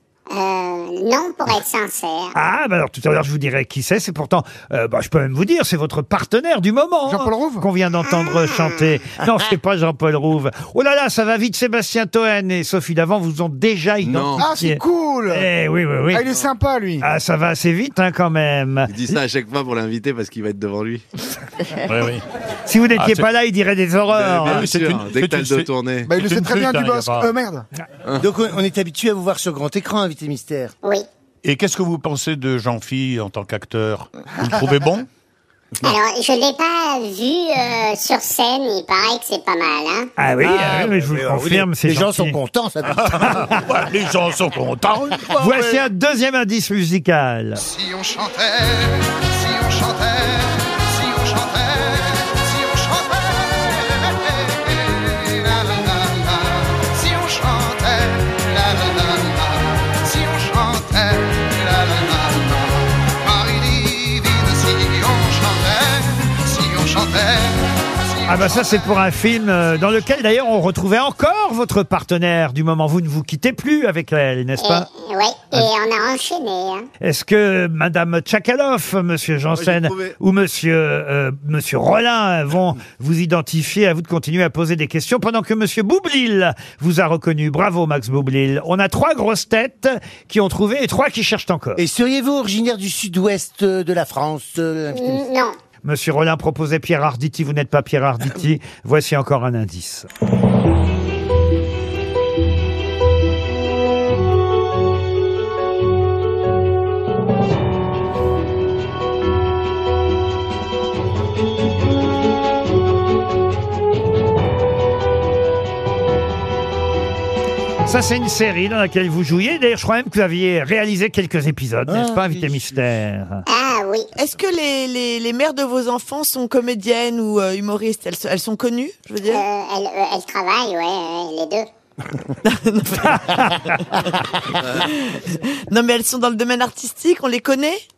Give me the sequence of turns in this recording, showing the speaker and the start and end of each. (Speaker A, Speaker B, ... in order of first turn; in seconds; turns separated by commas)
Speaker A: 0.3-2.3, Speaker B: 2.3-16.2, Speaker C: 7.1-7.7, Speaker A: 8.1-8.7, Speaker D: 14.0-14.4, Speaker C: 14.4-15.5, Speaker C: 16.1-17.1, Speaker B: 17.0-18.9, Speaker D: 18.9-21.0, Speaker E: 21.9-22.2, Speaker B: 22.6-24.7, Speaker E: 23.0-23.3, Speaker D: 24.1-26.1, Speaker E: 24.5-27.3, Speaker C: 26.1-27.7, Speaker F: 28.2-30.7, Speaker E: 31.4-35.1, Speaker A: 35.8-40.1, Speaker B: 40.2-42.4, Speaker F: 40.4-43.5, Speaker E: 42.9-45.9, Speaker B: 45.4-47.7, Speaker G: 47.7-68.8, Speaker B: 68.2-74.9, Speaker A: 74.6-76.9, Speaker B: 77.0-91.8, Speaker D: 79.5-80.2, Speaker F: 91.8-95.2, Speaker A: 94.9-95.6, Speaker B: 95.8-100.1, Speaker B: 117.8-123.4, Speaker F: 121.9-122.8, Speaker A: 123.5-124.1, Speaker H: 124.2-129.4, Speaker A: 129.3-131.7, Speaker H: 132.4-134.0, Speaker H: 134.5-137.8